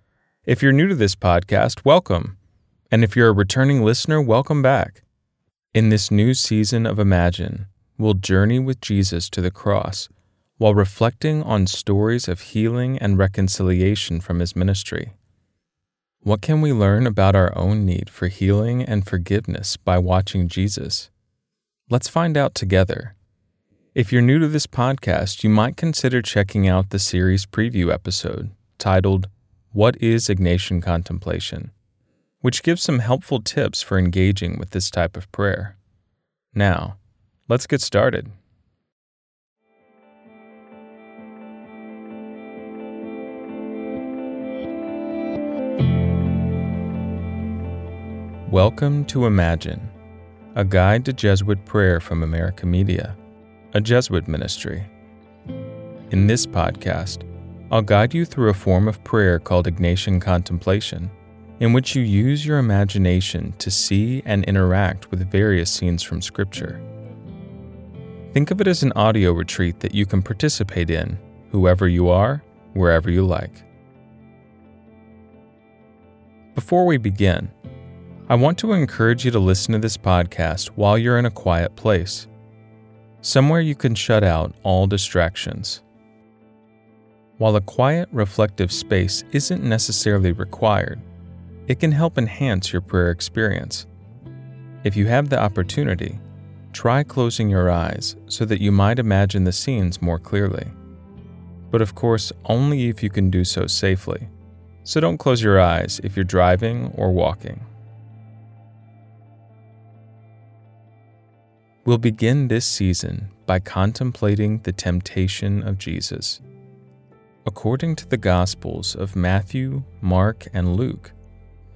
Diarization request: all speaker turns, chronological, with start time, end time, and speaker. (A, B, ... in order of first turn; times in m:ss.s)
0:00.4-0:02.4 A
0:02.9-0:05.0 A
0:05.7-0:15.2 A
0:16.2-0:21.1 A
0:21.9-0:23.2 A
0:23.9-0:31.7 A
0:32.4-0:35.8 A
0:36.5-0:38.4 A
0:48.4-0:49.9 A
0:50.5-0:53.2 A
0:53.7-0:54.9 A
0:56.1-1:06.8 A
1:08.3-1:13.7 A
1:16.5-1:17.5 A
1:18.3-1:22.3 A
1:23.2-1:25.8 A
1:27.4-1:31.0 A
1:31.7-1:33.9 A
1:34.8-1:40.8 A
1:41.7-1:44.3 A
1:44.8-1:47.7 A
1:51.8-1:56.4 A
1:57.4-2:01.2 A